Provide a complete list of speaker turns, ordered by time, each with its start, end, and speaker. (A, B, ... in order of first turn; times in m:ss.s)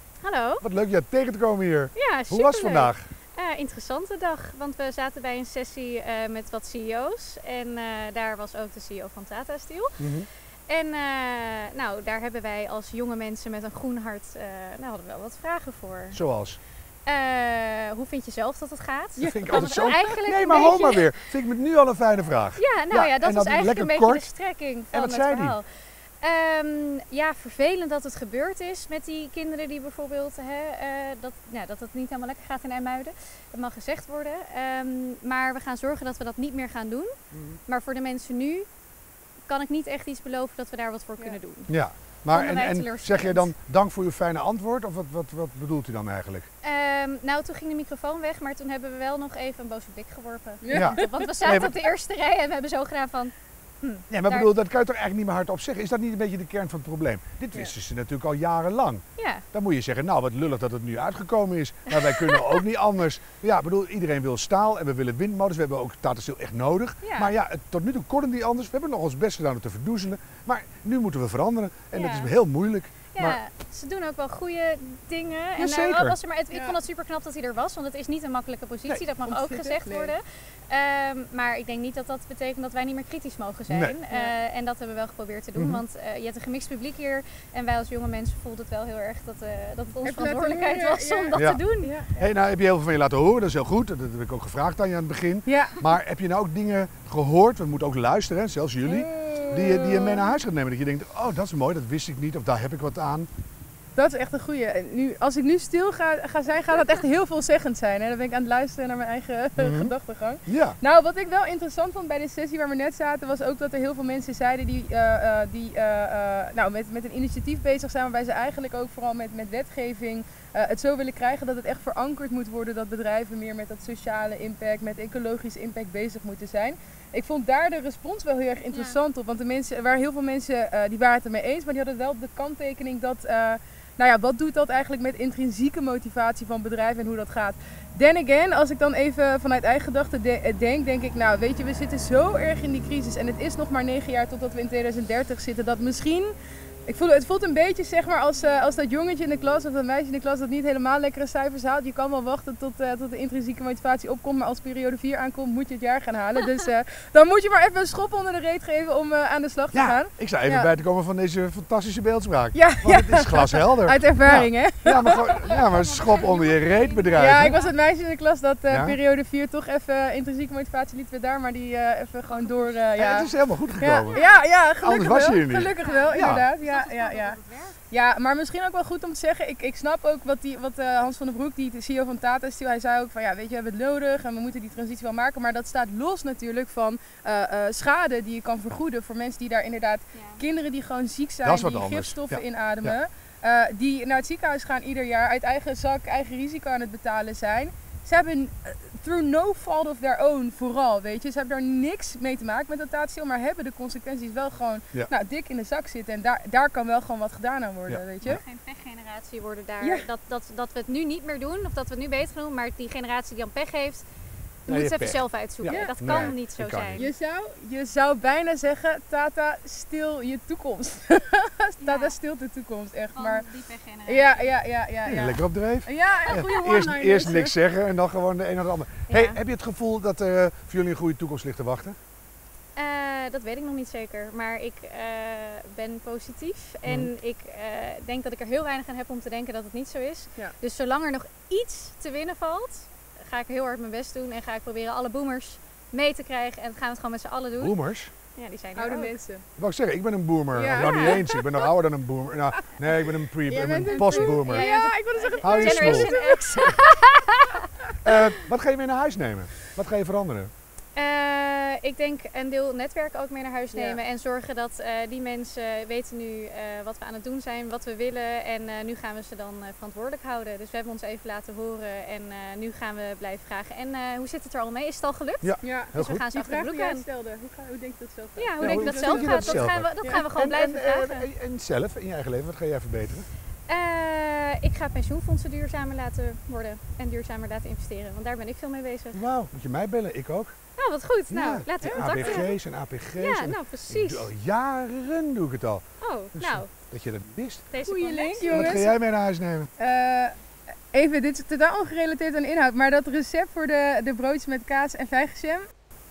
0:00.2-0:00.6 A
0:00.6-0:03.0 B
0:01.9-0:16.2 A
0:10.0-0:10.3 B
0:16.1-0:16.6 B
0:17.0-0:21.1 A
0:19.2-0:20.1 C
0:19.2-0:24.3 B
0:22.6-0:25.7 A
0:24.9-0:25.6 B
0:26.2-0:38.7 A
0:37.3-0:37.6 B
0:39.5-0:41.7 A
0:41.7-0:46.5 B
0:42.3-0:43.5 A
0:46.6-0:54.5 A
0:50.6-0:51.3 C
0:50.7-0:51.8 B
0:54.1-1:13.4 B
0:59.2-0:59.4 A
1:01.9-1:02.6 A
1:07.0-1:07.3 A
1:11.9-1:12.3 A
1:13.1-1:31.9 A
1:15.6-1:16.2 B
1:16.5-1:16.8 C
1:19.2-1:20.1 C
1:23.7-1:24.0 B
1:24.1-1:24.4 C
1:25.5-1:25.8 B
1:30.0-1:32.3 C
1:31.3-1:31.6 B
1:32.2-1:43.3 B
1:35.4-1:35.8 C
1:38.8-1:40.4 C
1:44.0-2:26.3 C
1:49.6-1:50.8 B
2:08.7-2:09.0 A
2:26.9-2:40.7 C
2:39.7-2:47.6 B
2:42.5-2:45.5 C
2:45.4-2:47.7 A
2:47.1-2:57.4 C
2:48.7-2:49.0 B
2:52.3-2:52.8 A
2:53.0-2:54.2 B
2:54.0-2:54.4 A
2:54.8-2:56.5 B
2:55.6-2:57.8 A
2:57.9-3:28.4 C
3:10.1-3:10.4 A
3:11.4-3:13.0 B
3:27.9-3:28.4 B
3:28.2-3:34.0 A
3:29.8-3:30.1 C
3:34.6-3:37.1 A
3:34.7-3:37.1 B
3:35.6-3:36.4 C
3:37.0-3:43.5 C
3:41.8-3:42.1 A
3:43.2-3:44.5 A
3:44.0-3:47.5 C
3:45.0-3:52.0 B
3:49.1-3:49.4 A
3:52.7-4:07.8 A
3:56.8-3:57.1 B
4:07.6-4:08.1 B
4:08.3-4:09.2 A
4:08.8-4:09.4 C
4:09.6-4:14.7 B
4:10.5-4:11.5 C
4:10.8-4:11.3 A
4:13.4-4:16.8 C
4:13.9-4:17.2 A
4:15.4-4:16.1 B
4:18.0-4:20.5 B
4:20.9-4:37.0 A
4:23.7-4:24.0 C
4:35.4-4:36.2 B
4:35.6-4:40.2 C
4:38.4-4:41.3 A
4:38.6-4:43.3 B
4:43.7-4:49.2 A
4:49.1-4:50.5 B
4:50.8-4:52.6 A
4:51.3-4:55.8 B
4:52.1-4:52.5 C
4:53.2-4:54.3 A
4:56.0-4:56.7 A
4:56.3-4:57.6 B
4:57.7-4:58.9 A
4:57.8-4:58.9 C
4:58.5-4:59.7 B
4:59.8-5:00.3 C
5:00.9-5:05.7 C